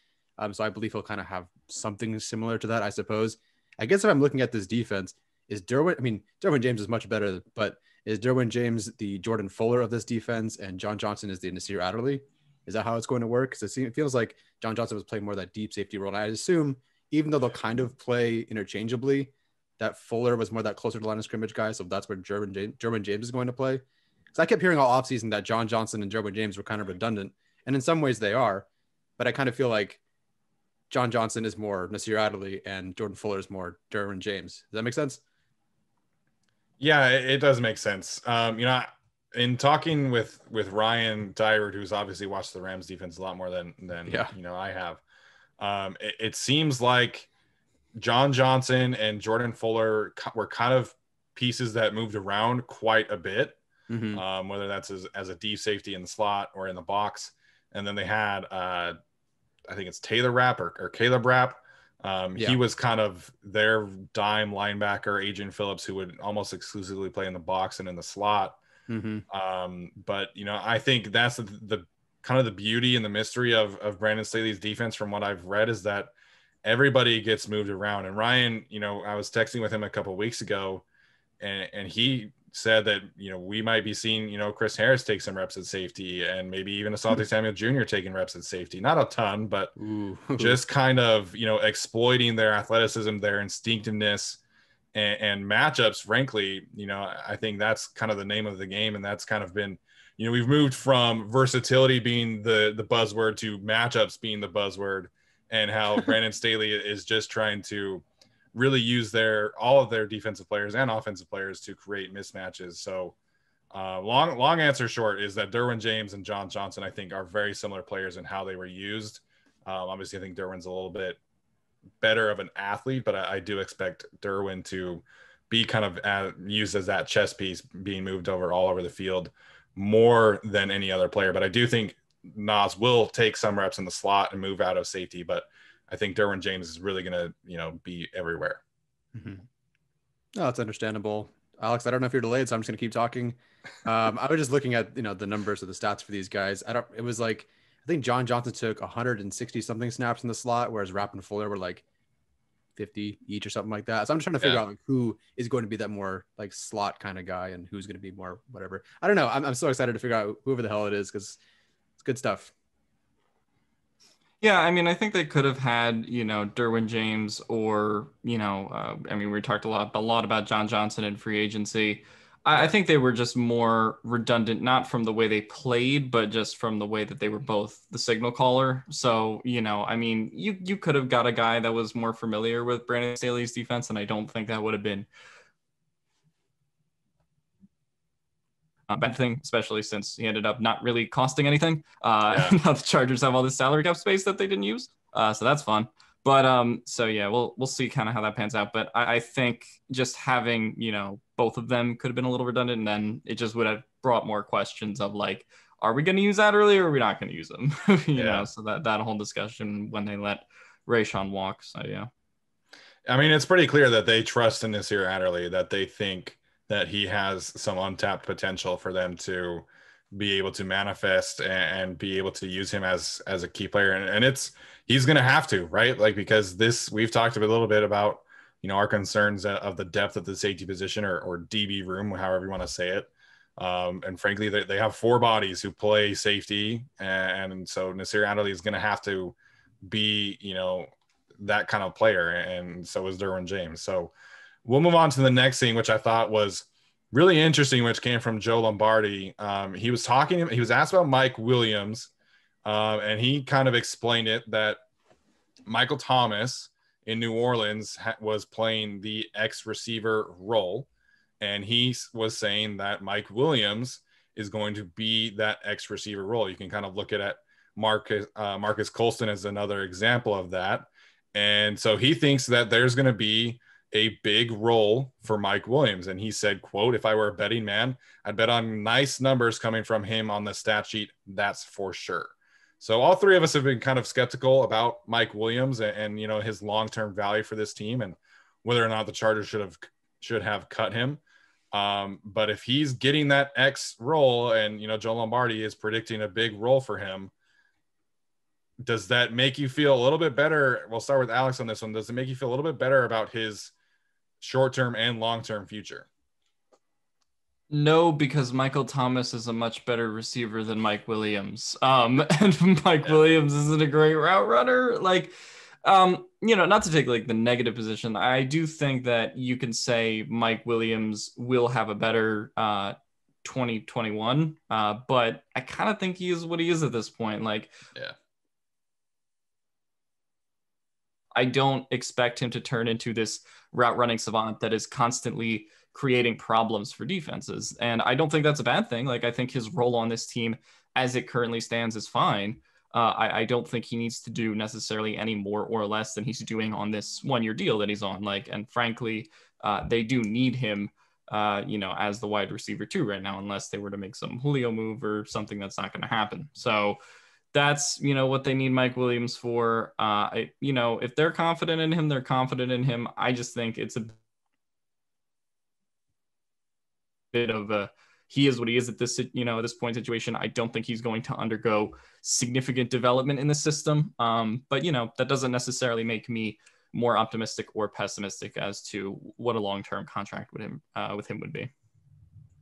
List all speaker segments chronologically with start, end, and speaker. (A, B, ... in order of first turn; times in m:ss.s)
0:00.4-0:28.7 A
0:29.2-0:30.0 A
0:30.9-0:35.2 A
0:36.8-0:45.0 B
0:44.1-0:44.3 A
0:45.6-0:47.3 B
0:48.0-0:53.6 B
0:53.9-0:54.2 A
0:54.1-0:59.0 B
0:59.7-1:08.6 B
1:08.9-1:09.2 A
1:09.3-1:16.1 B
1:16.6-1:20.8 B
1:21.4-1:29.7 B
1:29.8-1:30.6 A
1:30.4-1:34.4 B
1:34.9-1:53.2 B
1:53.7-2:01.2 B
2:02.0-2:18.6 B
2:19.1-2:19.4 A
2:20.4-2:31.8 A
2:32.8-2:41.4 A
2:42.0-2:42.5 A
2:44.4-3:05.1 C
3:08.9-3:32.1 C
3:12.3-3:12.6 B
3:28.2-3:28.5 B
3:33.1-4:04.1 B
4:04.6-4:12.1 B
4:12.6-4:14.8 B
4:15.7-4:20.9 B
4:21.4-4:51.2 B
4:51.7-4:57.3 B
4:58.8-5:03.7 B
5:04.4-5:06.1 B
5:07.7-5:27.7 C
5:31.4-5:57.0 C
5:57.5-6:04.1 C
6:07.3-6:21.7 C